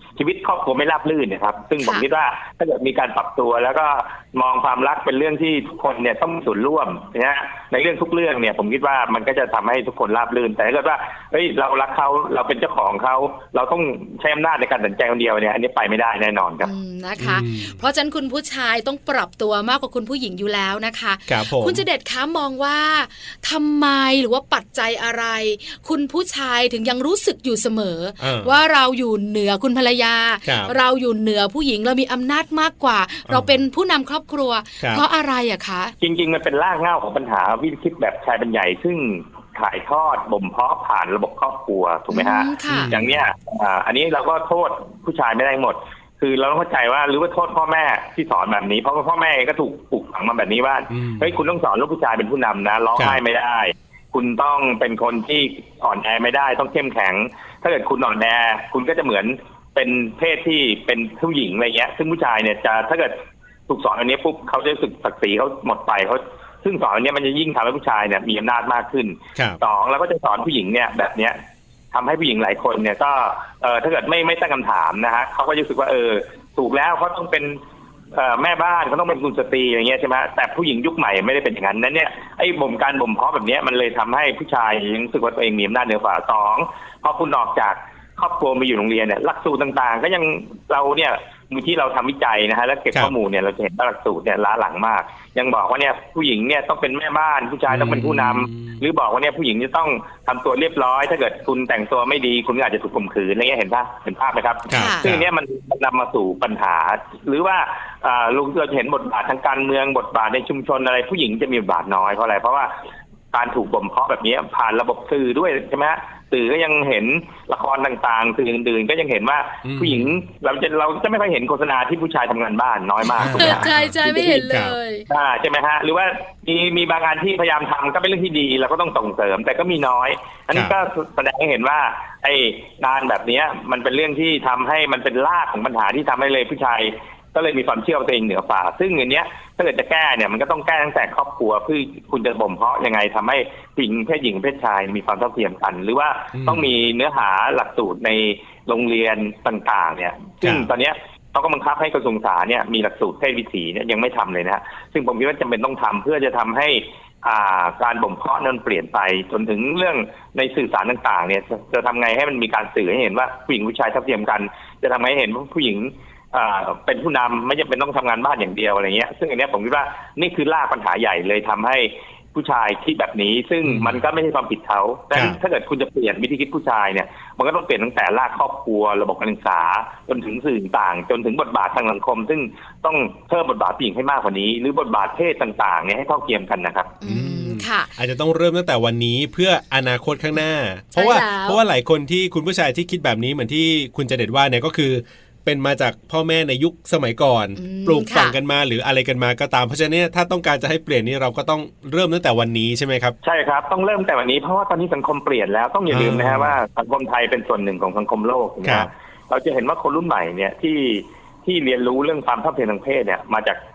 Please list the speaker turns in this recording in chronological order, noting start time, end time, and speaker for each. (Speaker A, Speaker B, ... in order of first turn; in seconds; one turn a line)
Speaker A: 0.2-16.7
Speaker B: 16.6-35.9
Speaker C: 17.2-17.8
Speaker C: 21.3-21.8
Speaker C: 28.2-28.6
Speaker C: 30.5-30.7
Speaker C: 33.3-33.6
Speaker A: 36.0-71.4
Speaker B: 42.1-42.9
Speaker C: 42.7-43.2
Speaker C: 50.9-51.3
Speaker C: 53.0-53.2
Speaker C: 69.4-69.6
Speaker A: 71.9-77.6
Speaker A: 78.1-112.7
Speaker C: 97.7-98.8
Speaker C: 104.7-105.3
Speaker B: 104.7-105.0
Speaker A: 113.3-124.4
Speaker C: 119.6-120.2
Speaker C: 123.2-124.8
Speaker B: 123.2-125.0
Speaker A: 125.1-187.0
Speaker C: 146.3-146.7
Speaker C: 150.4-150.7
Speaker C: 173.7-174.0
Speaker C: 175.1-175.4
Speaker B: 187.0-187.9
Speaker C: 187.1-203.2
Speaker B: 190.9-191.6
Speaker B: 197.6-198.4
Speaker A: 203.2-213.6
Speaker C: 205.9-206.6
Speaker C: 208.6-208.9